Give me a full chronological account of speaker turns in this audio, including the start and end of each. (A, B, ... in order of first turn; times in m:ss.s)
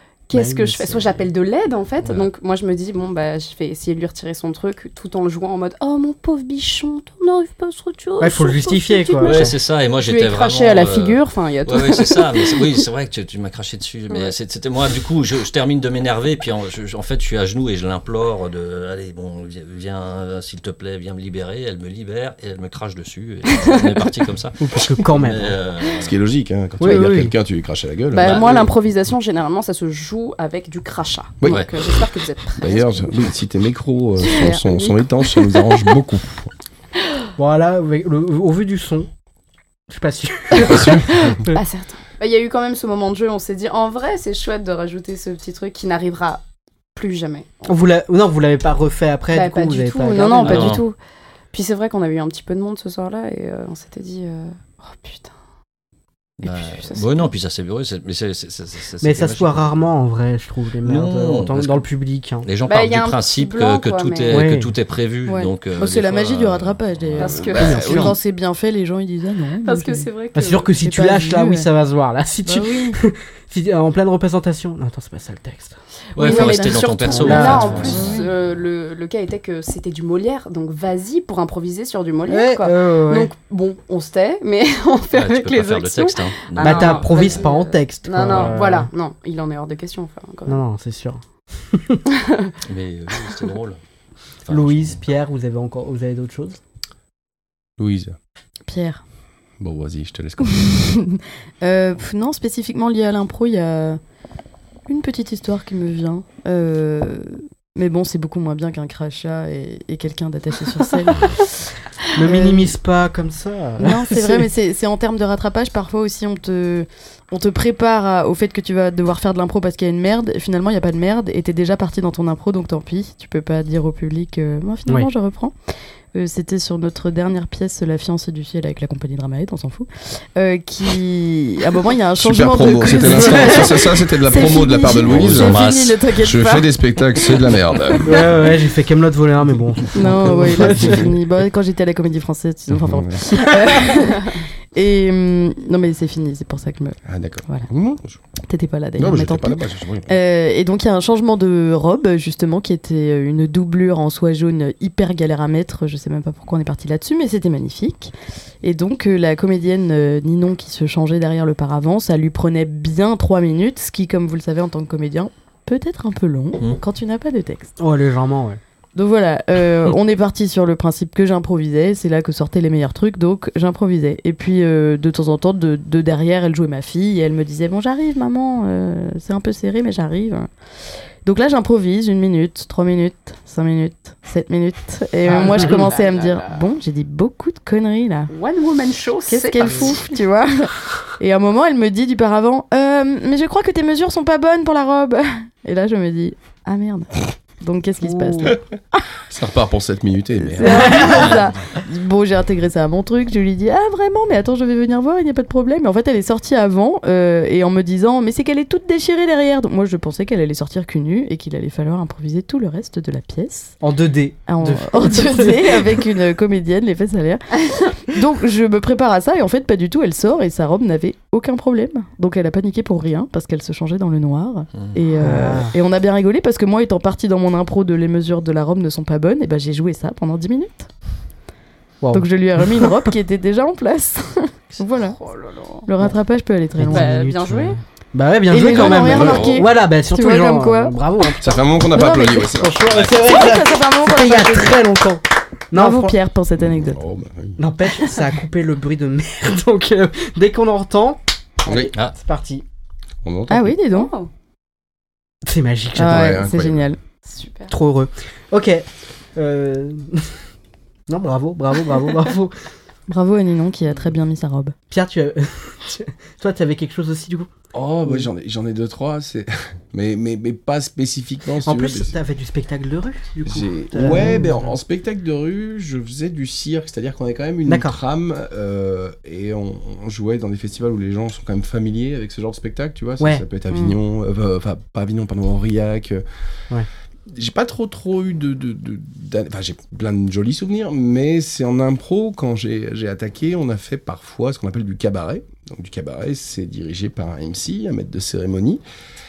0:00.3-0:12.7 A
0:00.3-0:01.2 B
0:02.0-0:02.3 C
0:08.2-0:09.5 B
0:09.2-0:26.2 C
0:23.5-0:23.8 A
0:24.6-0:25.6 B
0:25.9-0:28.7 D
0:26.8-0:27.3 B
0:28.1-0:33.1 A
0:28.2-0:28.6 C
0:31.4-0:31.7 D
0:31.4-0:31.7 C
0:32.6-0:36.5 D
0:34.2-0:35.8 A
0:37.4-0:39.1 B
0:39.9-0:41.6 B
0:40.6-0:41.4 D
0:40.6-0:40.8 A
0:41.4-0:46.4 A
0:46.9-0:47.7 A
0:47.7-0:50.8 B
0:49.3-0:51.0 A
0:50.4-0:50.8 C
0:51.5-0:55.3 A
0:56.4-0:59.8 C
0:56.4-0:57.3 A
0:59.0-1:02.4 B
1:00.8-1:01.9 C
1:02.4-1:07.5 C
1:02.6-1:04.5 A
1:04.3-1:04.7 B
1:05.2-1:10.1 E
1:07.2-1:07.9 A
1:07.4-1:08.1 D
1:07.6-1:08.2 B
1:09.6-1:10.8 A
1:10.3-1:18.1 B
1:10.8-1:11.7 E
1:12.4-1:13.0 E
1:16.1-1:18.2 C
1:16.2-1:30.6 A
1:17.9-1:18.3 E
1:22.3-1:23.3 B
1:25.1-1:27.4 C
1:26.6-1:28.9 B
1:30.5-1:32.0 B
1:32.1-1:32.5 A
1:32.6-1:33.8 C
1:34.4-1:35.0 C
1:34.5-1:36.6 B
1:37.8-1:38.2 D
1:38.7-1:39.0 E
1:39.6-1:40.8 D
1:40.4-1:44.0 E
1:44.8-1:51.3 E
1:52.1-1:54.5 B
1:52.2-1:52.7 E
1:53.8-2:05.5 E
2:06.1-2:16.7 E
2:12.2-2:15.6 D
2:15.0-2:16.0 C
2:16.2-2:18.3 D
2:18.0-2:21.1 B
2:19.9-2:27.7 E
2:20.0-2:21.2 D
2:22.7-2:23.2 D
2:27.0-2:28.2 D
2:28.5-2:47.7 E
2:29.0-2:30.1 D
2:47.8-2:48.6 B
2:48.9-3:00.5 E
3:01.2-3:08.3 E
3:05.2-3:06.6 A
3:08.3-3:10.2 A
3:09.2-3:18.6 E
3:18.0-3:18.3 A
3:19.3-3:21.4 D
3:20.4-3:33.8 E
3:20.8-3:21.1 B
3:33.8-3:36.0 B
3:34.5-3:50.9 E
3:44.7-3:45.0 C
3:45.2-3:45.8 B
3:52.0-3:53.1 B
3:52.1-3:55.2 E
3:54.9-3:55.9 A
3:55.8-3:57.1 E
3:56.7-4:06.2 B
3:56.9-3:57.8 A
3:58.5-4:00.9 E
3:58.7-3:59.7 C
3:58.9-3:59.4 D
4:01.4-4:02.8 D
4:01.9-4:02.5 E
4:02.9-4:03.3 C
4:03.1-4:04.8 E
4:05.7-4:07.0 E
4:06.6-4:07.6 D
4:07.6-4:12.6 B
4:13.2-4:13.8 D
4:13.5-4:14.1 E
4:13.9-4:14.3 A
4:15.4-4:16.4 B
4:16.0-4:17.0 E
4:16.0-4:16.8 D
4:17.2-4:17.7 A
4:17.7-4:20.3 B
4:21.1-4:22.5 B
4:23.1-4:24.7 E
4:24.9-4:27.5 B
4:27.7-4:32.1 D
4:31.6-4:34.7 B
4:33.4-4:46.2 D
4:37.7-4:38.0 B
4:43.2-4:43.4 B
4:43.7-4:44.0 E
4:47.3-4:58.8 D